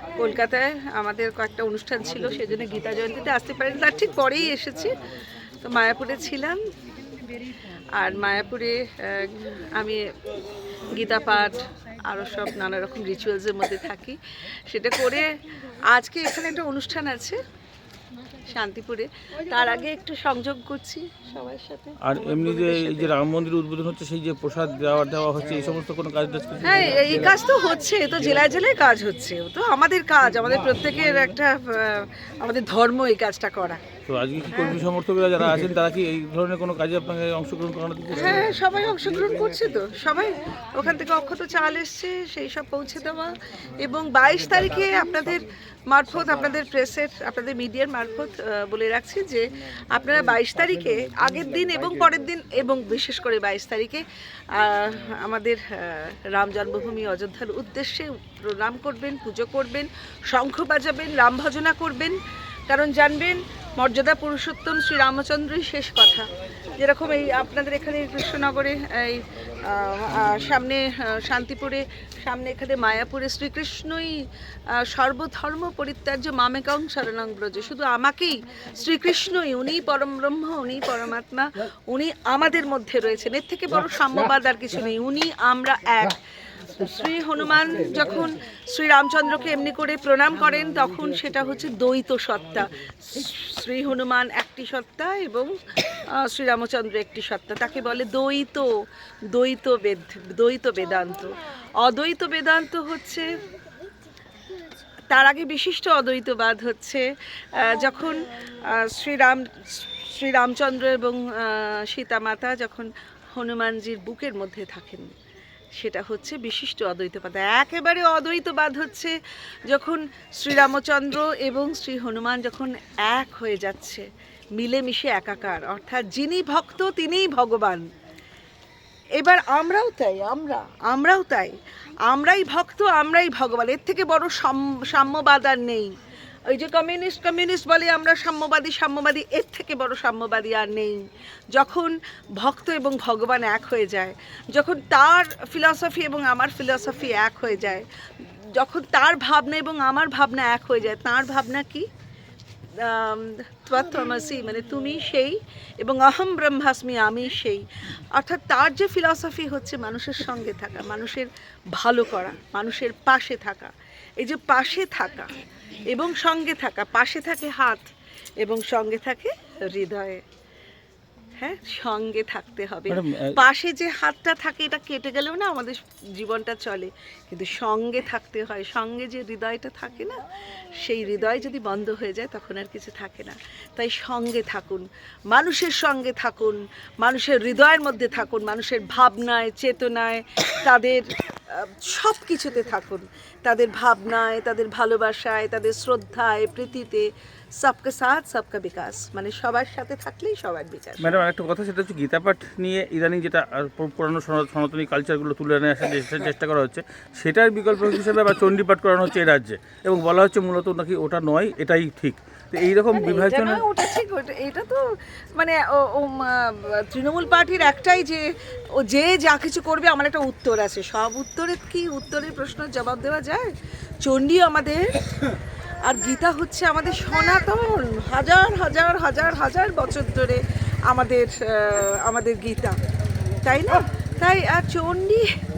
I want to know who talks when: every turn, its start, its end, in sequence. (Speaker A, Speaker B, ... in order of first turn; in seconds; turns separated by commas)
Speaker A: 0.2-5.0, Speaker A: 5.6-6.6, Speaker A: 8.0-10.1, Speaker A: 10.9-15.4, Speaker A: 15.9-17.4, Speaker A: 18.5-22.1, Speaker B: 22.0-27.3, Speaker A: 26.6-33.8, Speaker B: 34.1-38.5, Speaker A: 34.5-34.8, Speaker A: 38.1-62.1, Speaker A: 62.7-66.3, Speaker A: 66.8-74.2, Speaker A: 74.8-98.7, Speaker A: 99.3-103.3, Speaker A: 105.1-107.0, Speaker A: 107.6-115.1, Speaker A: 115.8-119.1, Speaker A: 119.7-124.0, Speaker A: 124.6-127.8, Speaker A: 129.2-131.5, Speaker A: 132.1-135.9, Speaker A: 136.5-141.0, Speaker A: 141.5-151.8, Speaker A: 152.8-165.3, Speaker A: 165.9-167.9, Speaker A: 168.4-170.2, Speaker A: 171.4-180.2, Speaker B: 172.9-173.3, Speaker A: 180.8-197.1, Speaker A: 197.6-201.2, Speaker B: 201.0-213.6, Speaker A: 212.9-214.8, Speaker A: 215.4-218.2, Speaker A: 218.8-223.5, Speaker A: 224.0-224.8, Speaker A: 225.8-232.8, Speaker A: 233.4-235.3